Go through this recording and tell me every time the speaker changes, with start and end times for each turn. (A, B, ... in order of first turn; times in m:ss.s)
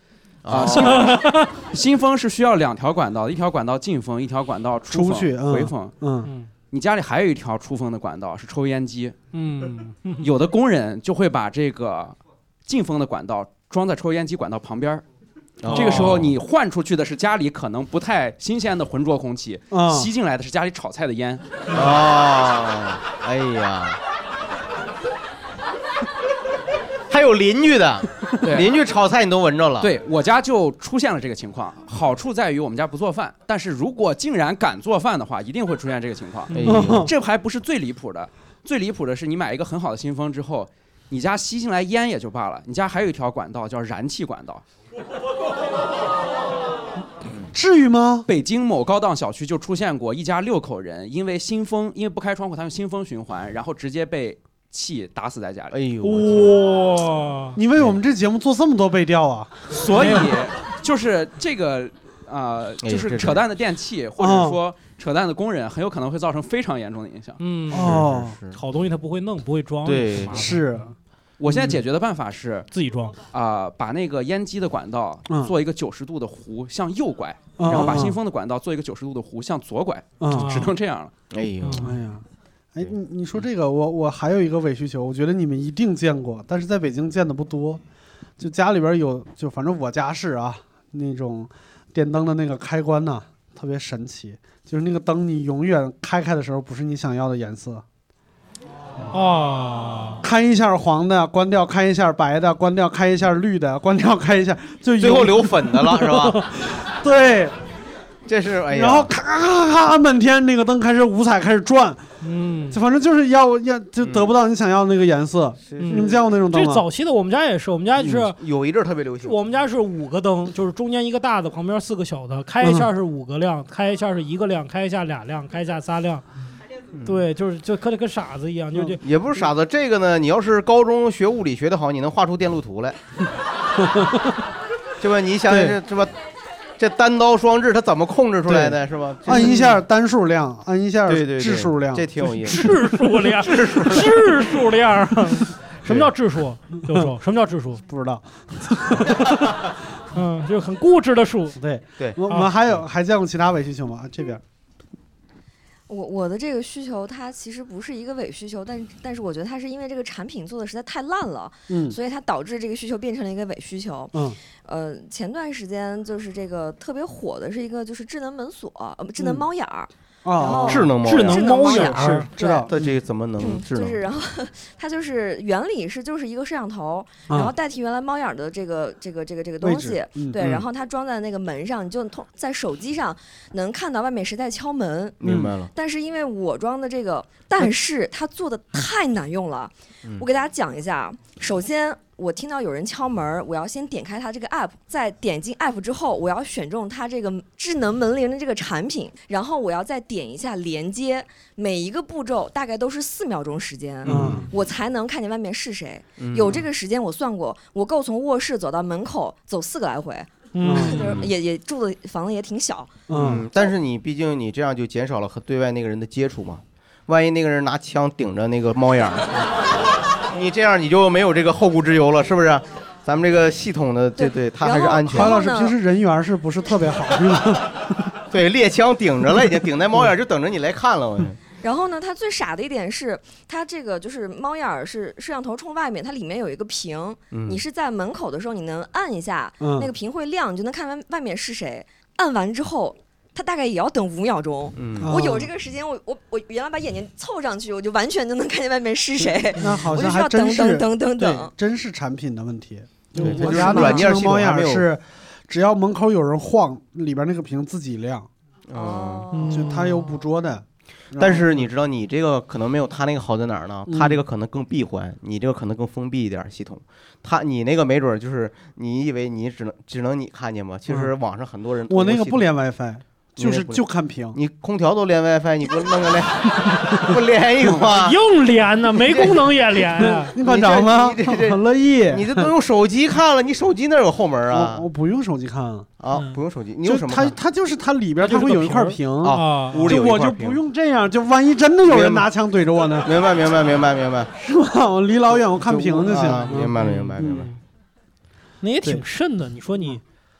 0:00.4-0:01.1 A
0:00.5-0:06.0 B
0:00.8-0:01.5 C
0:04.9-0:06.3 D
0:06.7-0:09.2 B
0:09.3-0:10.2 C
0:10.2-0:15.0 B
0:15.6-0:16.3 A
0:15.7-0:21.8 B
0:19.7-0:20.1 D
0:21.7-0:24.0 A
0:27.1-0:29.9 A
0:28.4-0:28.8 B
0:29.8-0:44.6 B
0:36.5-0:37.1 A
0:36.6-0:37.1 D
0:47.5-0:48.2 D
0:48.3-0:55.7 B
0:55.7-0:56.6 A
0:56.0-0:57.6 C
0:57.5-0:59.6 D
0:59.7-1:07.4 B
1:02.8-1:03.4 A
1:04.2-1:04.6 D
1:07.4-1:08.0 C
1:07.7-1:08.4 D
1:07.7-1:08.6 A
1:08.5-1:10.8 C
1:09.8-1:10.4 A
1:10.3-1:10.9 D
1:11.4-1:12.7 B
1:12.7-1:13.2 C
1:13.3-1:21.1 B
1:17.6-1:18.2 D
1:20.2-1:20.6 D
1:20.3-1:20.7 C
1:21.3-1:21.9 A
1:21.6-1:21.9 C
1:21.8-1:22.2 D
1:22.7-1:27.8 D
1:28.4-1:37.8 D
1:39.1-1:40.2 C
1:40.2-1:47.5 D
1:45.0-1:46.4 A
1:48.3-1:49.1 A
1:48.7-1:52.0 D
1:52.2-1:52.8 C
1:52.7-1:56.8 D
1:54.0-1:54.3 A
1:55.7-1:56.2 A
1:55.8-1:58.4 C
1:58.0-1:59.4 A
1:59.2-2:06.2 C
2:02.6-2:02.9 D
2:06.9-2:07.2 A
2:07.0-2:09.0 C
2:09.0-2:13.0 A
2:13.8-2:14.2 D
2:15.0-2:16.1 A
2:15.5-2:15.8 D
2:16.8-2:19.8 A
2:18.5-2:22.1 D
2:21.1-2:24.2 A
2:22.4-2:27.8 C
2:27.9-2:29.4 D
2:30.1-2:31.6 C
2:31.6-2:34.4 D
2:35.9-2:52.7 E
2:41.7-2:42.0 D
2:44.1-2:44.4 D
2:50.2-2:50.9 D
2:50.5-2:51.7 A
2:51.0-2:52.3 C
2:51.6-2:52.7 D
2:52.7-2:54.0 A
2:53.4-3:33.0 E
2:59.6-3:00.4 D
3:00.4-3:00.6 A
3:05.2-3:05.7 A
3:05.2-3:05.5 D
3:24.0-3:24.4 A
3:24.0-3:24.5 D
3:26.2-3:26.7 A
3:30.5-3:30.9 C
3:30.6-3:31.0 D
3:30.9-3:31.3 A
3:33.1-3:33.4 D
3:33.1-3:39.5 A
3:40.3-3:45.4 A
3:44.2-3:45.7 E
3:45.1-3:47.8 D
3:48.3-3:51.4 A
3:51.6-4:11.5 E
3:57.3-3:57.6 A
3:59.6-3:59.9 D
4:04.8-4:05.2 A
4:05.0-4:05.5 D
4:09.6-4:18.3 D
4:13.2-4:14.8 A
4:13.2-4:14.0 C
4:18.7-4:19.3 A
4:18.7-4:19.8 E
4:19.3-4:20.0 C
4:19.5-4:21.7 D
4:21.2-4:32.4 A
4:23.9-4:24.2 D
4:31.9-4:34.4 D
4:33.4-4:33.8 A
4:34.3-4:38.2 A
4:37.9-4:40.3 C
4:39.0-4:39.4 A
4:40.0-4:42.5 D
4:40.4-4:44.8 A
4:44.5-4:45.9 D
4:46.0-4:47.3 A
4:46.1-4:46.4 C
4:46.8-4:53.2 D
4:48.2-4:49.9 C
4:49.2-4:50.6 A
4:51.9-4:52.3 A
4:53.0-4:54.3 A
4:54.4-4:57.5 D
4:55.5-4:57.5 A
4:57.2-4:57.5 C
4:58.6-5:00.0 C